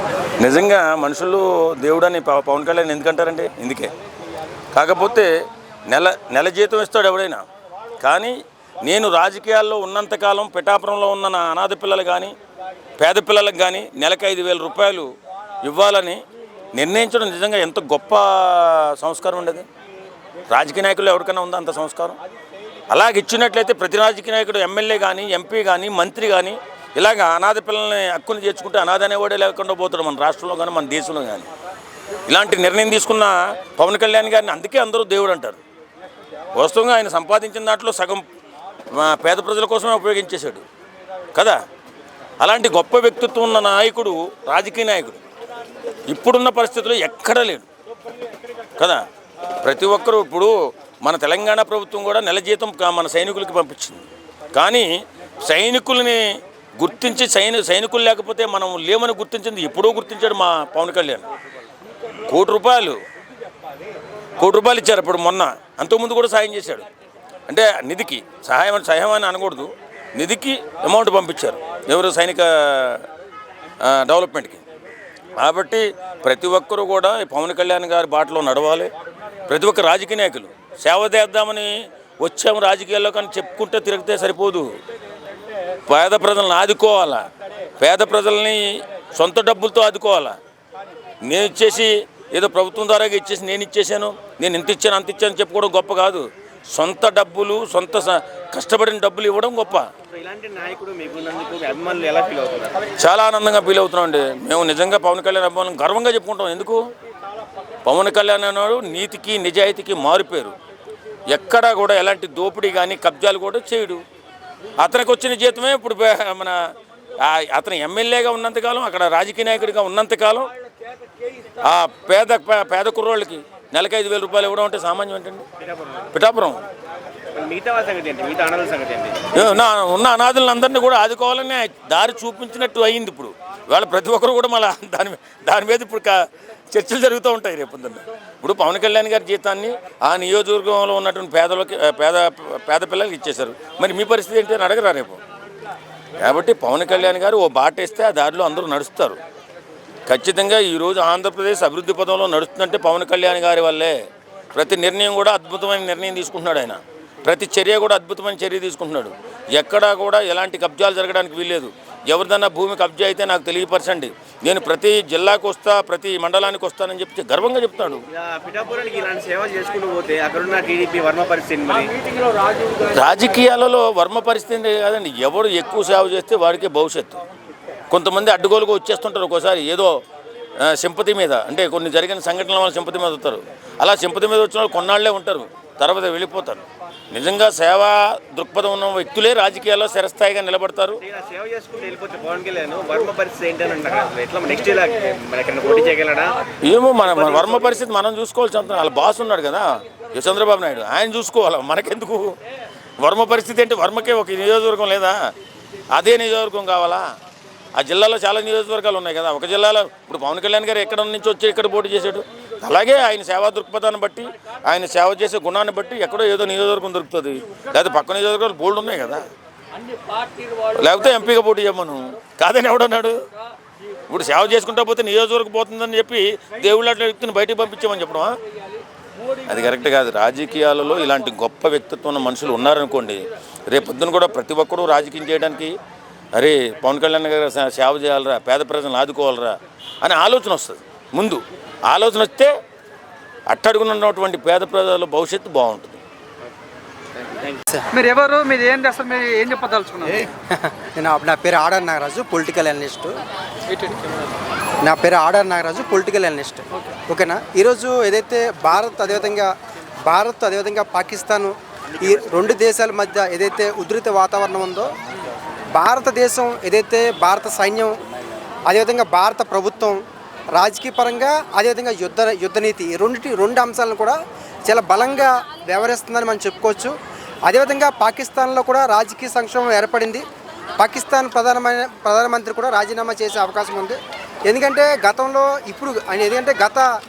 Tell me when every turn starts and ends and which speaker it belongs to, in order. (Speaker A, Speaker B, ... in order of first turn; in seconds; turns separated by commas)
Speaker A: 0.4-3.9, Speaker A: 4.7-5.3, Speaker A: 5.9-7.4, Speaker A: 8.0-12.3, Speaker A: 13.0-15.1, Speaker A: 15.6-16.2, Speaker A: 16.8-19.6, Speaker A: 20.5-22.2, Speaker A: 22.9-31.5, Speaker A: 32.3-35.6, Speaker A: 36.5-38.2, Speaker A: 38.9-40.6, Speaker A: 42.4-45.2, Speaker A: 46.1-47.7, Speaker A: 49.6-54.9, Speaker A: 55.4-56.2, Speaker A: 56.8-61.2, Speaker A: 62.3-63.0, Speaker A: 64.4-66.8, Speaker A: 67.5-73.0, Speaker A: 73.8-74.6, Speaker A: 75.4-78.9, Speaker A: 79.5-84.6, Speaker A: 85.9-87.2, Speaker A: 87.8-88.6, Speaker A: 89.2-90.3, Speaker A: 91.2-99.8, Speaker B: 100.1-102.8, Speaker A: 103.0-106.8, Speaker A: 107.8-110.5, Speaker A: 111.3-114.0, Speaker A: 114.8-116.5, Speaker A: 117.2-120.5, Speaker A: 121.6-125.4, Speaker B: 125.6-126.1, Speaker A: 126.1-126.6, Speaker B: 127.3-129.5, Speaker A: 129.3-136.2, Speaker A: 136.7-145.2, Speaker A: 146.2-149.2, Speaker A: 150.1-153.9, Speaker A: 154.5-168.0, Speaker B: 168.1-171.9, Speaker A: 172.8-177.2, Speaker A: 177.9-179.9, Speaker A: 180.6-191.0, Speaker B: 191.0-196.3, Speaker A: 196.7-202.3, Speaker A: 203.0-205.2, Speaker A: 205.9-207.0, Speaker A: 207.8-219.2, Speaker A: 220.7-223.1, Speaker A: 224.1-228.3, Speaker A: 229.5-235.7, Speaker A: 236.3-242.5, Speaker A: 243.5-246.0, Speaker C: 247.9-250.3, Speaker D: 250.5-253.2, Speaker C: 253.7-254.0, Speaker D: 254.8-259.5, Speaker D: 260.1-264.9, Speaker D: 265.7-267.9, Speaker D: 268.7-270.0, Speaker D: 270.5-276.9, Speaker D: 277.4-280.2, Speaker D: 280.8-286.9